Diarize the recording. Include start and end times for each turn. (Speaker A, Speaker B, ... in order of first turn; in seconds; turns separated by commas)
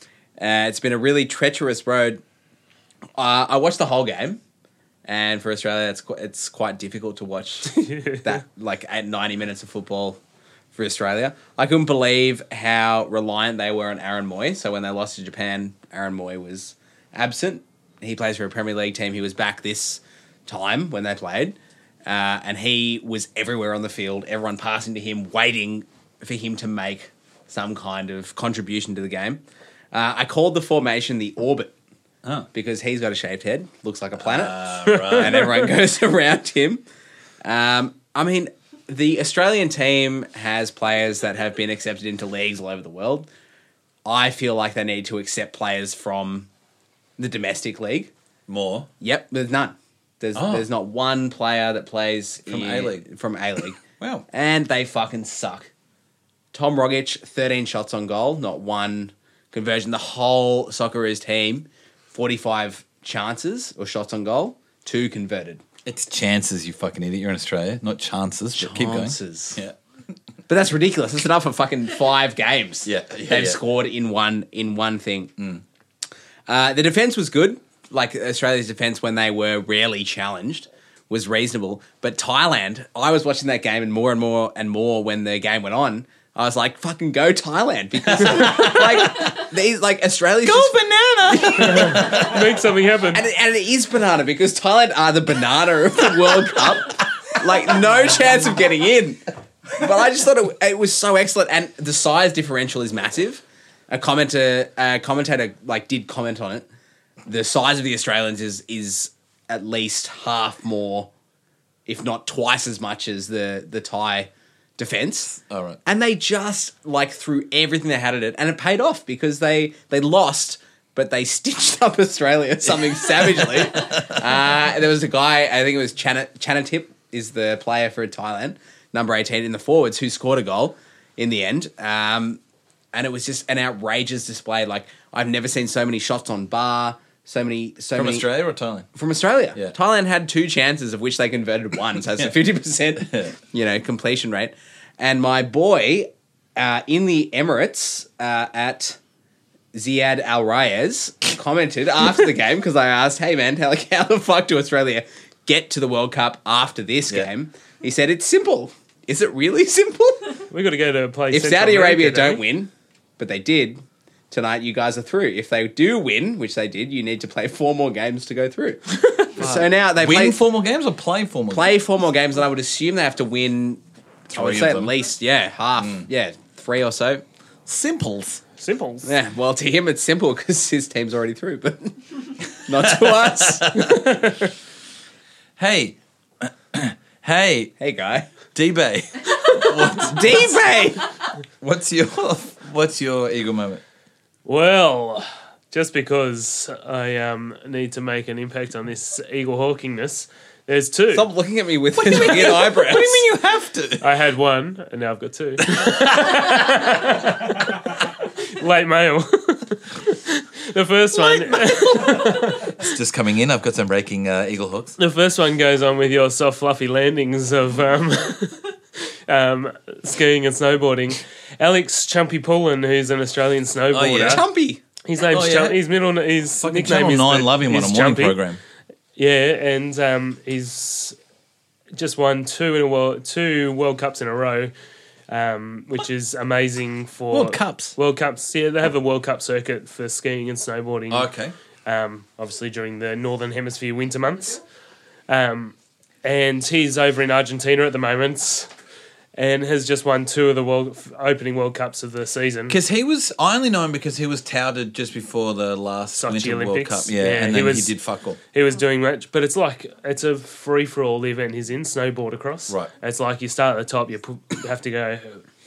Speaker A: 0.4-2.2, Speaker A: 3.2-4.4, Speaker A: 5.1-10.2, Speaker B: 7.7-8.4, Speaker A: 10.8-29.4, Speaker A: 29.9-31.7, Speaker A: 32.5-36.8, Speaker C: 34.2-35.6, Speaker B: 34.9-35.2, Speaker A: 37.4-43.3, Speaker A: 44.0-46.5, Speaker A: 47.2-48.1, Speaker C: 48.5-48.9, Speaker A: 49.0-53.8, Speaker C: 50.4-50.7, Speaker C: 52.5-53.1, Speaker C: 53.8-54.2, Speaker A: 54.3-55.7, Speaker A: 56.5-65.6, Speaker C: 65.8-69.8, Speaker A: 68.6-69.6, Speaker A: 70.5-75.3, Speaker C: 72.8-73.6, Speaker C: 75.4-75.6, Speaker A: 76.5-90.8, Speaker C: 88.1-89.3, Speaker C: 90.4-92.4, Speaker A: 91.3-92.2, Speaker B: 91.6-93.2, Speaker A: 93.1-99.2, Speaker A: 99.7-106.7, Speaker A: 107.3-111.1, Speaker A: 111.9-132.4, Speaker C: 115.4-115.8, Speaker C: 122.8-124.3, Speaker A: 132.9-138.3, Speaker C: 137.9-138.9, Speaker A: 138.9-149.0, Speaker C: 143.0-143.3, Speaker A: 149.7-160.4, Speaker B: 160.5-162.4, Speaker A: 161.3-170.4, Speaker C: 169.4-171.7, Speaker A: 171.5-173.8, Speaker C: 174.3-175.0, Speaker A: 174.3-177.2, Speaker C: 175.8-176.1, Speaker C: 177.7-178.4, Speaker B: 178.6-179.1, Speaker A: 179.0-182.0, Speaker A: 182.5-183.7, Speaker C: 182.7-184.1, Speaker B: 183.8-184.5, Speaker C: 185.6-187.7, Speaker A: 187.8-188.3, Speaker C: 188.6-190.5, Speaker A: 189.9-191.1, Speaker C: 191.6-193.8, Speaker B: 194.4-201.3, Speaker A: 201.1-203.2, Speaker C: 201.9-204.1, Speaker B: 204.0-212.7, Speaker C: 211.2-215.0, Speaker B: 215.0-218.7, Speaker B: 219.3-224.4, Speaker C: 223.9-224.4, Speaker A: 224.2-224.8, Speaker B: 225.1-228.4, Speaker C: 225.2-225.8, Speaker C: 226.6-228.6, Speaker B: 229.2-231.2, Speaker B: 231.9-234.7, Speaker B: 235.3-241.3, Speaker C: 237.3-237.9, Speaker C: 241.1-241.6, Speaker B: 241.9-244.6, Speaker B: 245.3-248.7, Speaker B: 249.4-252.8, Speaker C: 252.7-258.4, Speaker B: 256.2-257.9, Speaker B: 258.5-265.4